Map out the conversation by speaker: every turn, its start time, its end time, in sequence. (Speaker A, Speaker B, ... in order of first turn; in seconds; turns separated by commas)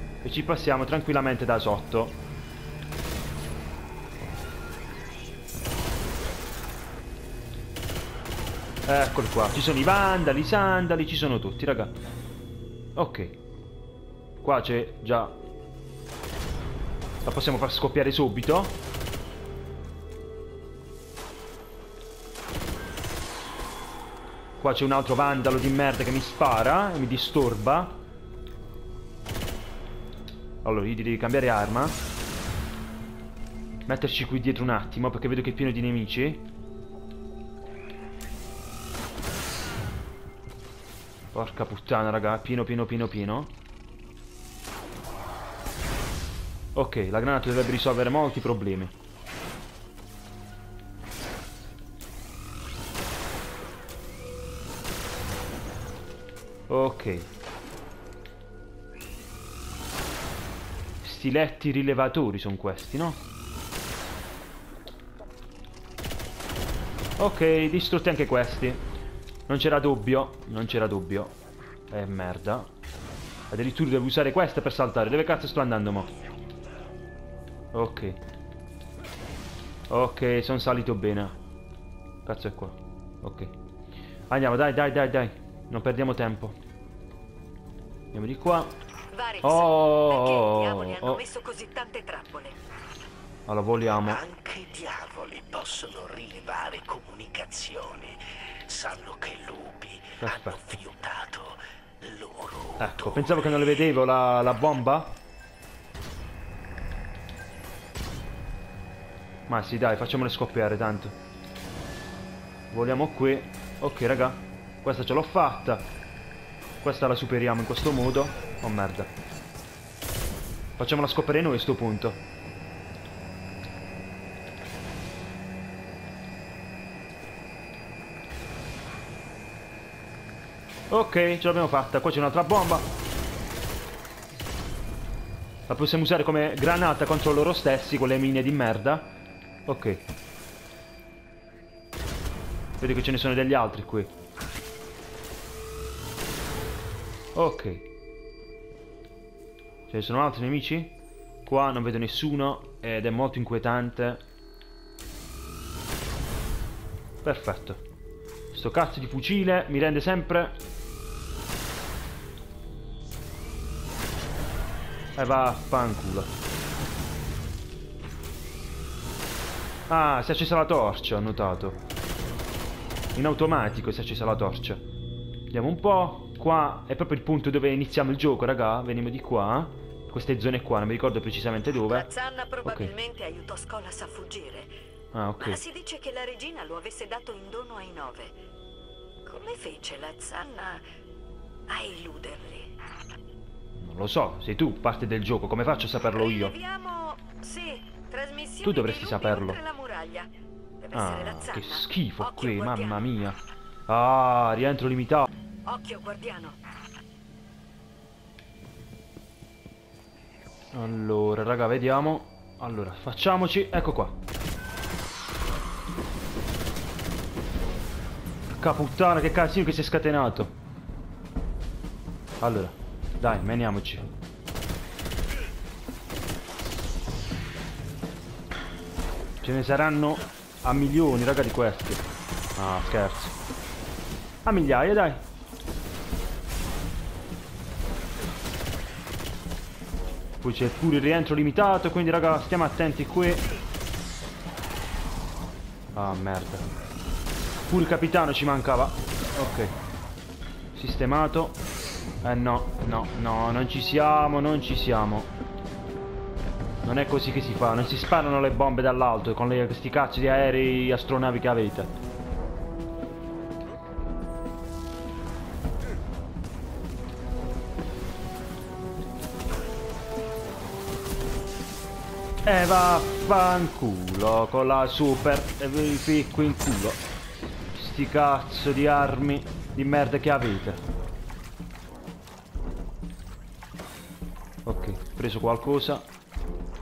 Speaker A: 0.2-2.2, Speaker A: 8.8-11.9, Speaker A: 12.9-13.4, Speaker A: 14.4-15.4, Speaker A: 17.2-18.8, Speaker A: 24.6-28.0, Speaker A: 30.6-32.0, Speaker A: 33.9-36.4, Speaker A: 41.3-43.5, Speaker A: 46.7-48.9, Speaker A: 56.7-57.3, Speaker A: 61.0-63.2, Speaker A: 67.2-68.8, Speaker A: 69.5-71.3, Speaker A: 71.9-72.7, Speaker A: 73.5-76.1, Speaker A: 77.7-78.2, Speaker A: 79.9-81.3, Speaker A: 82.2-83.5, Speaker A: 84.3-86.5, Speaker A: 88.1-88.7, Speaker B: 89.1-92.6, Speaker A: 89.4-91.2, Speaker A: 93.5-94.2, Speaker C: 94.0-103.4, Speaker A: 100.2-100.8, Speaker A: 102.8-105.1, Speaker A: 109.5-111.2, Speaker A: 112.7-115.9, Speaker A: 116.8-119.1, Speaker A: 120.8-122.2, Speaker A: 130.9-132.9, Speaker A: 135.7-139.1, Speaker A: 139.7-140.0, Speaker A: 142.8-144.1, Speaker A: 147.3-147.8, Speaker A: 149.9-154.2, Speaker A: 157.2-157.8, Speaker A: 158.5-160.6, Speaker A: 165.2-166.3, Speaker A: 169.9-171.8, Speaker A: 173.1-174.8, Speaker A: 175.5-182.1, Speaker B: 181.8-184.7, Speaker A: 182.6-182.9, Speaker A: 185.1-185.6, Speaker B: 185.4-188.3, Speaker B: 189.2-190.8, Speaker B: 191.7-192.7, Speaker A: 193.8-196.5, Speaker B: 196.1-200.3, Speaker A: 198.6-199.6, Speaker B: 200.8-203.1, Speaker A: 200.9-205.3, Speaker B: 205.7-206.6, Speaker A: 210.7-214.2, Speaker A: 218.6-220.5, Speaker A: 222.4-224.1, Speaker A: 229.4-232.0, Speaker A: 232.6-233.3, Speaker A: 234.4-235.2, Speaker A: 240.4-243.4, Speaker A: 245.9-246.7, Speaker A: 247.7-249.7, Speaker A: 250.7-251.6, Speaker A: 252.2-255.3, Speaker A: 256.8-261.9, Speaker A: 272.4-277.0, Speaker A: 277.7-280.8, Speaker A: 284.6-286.1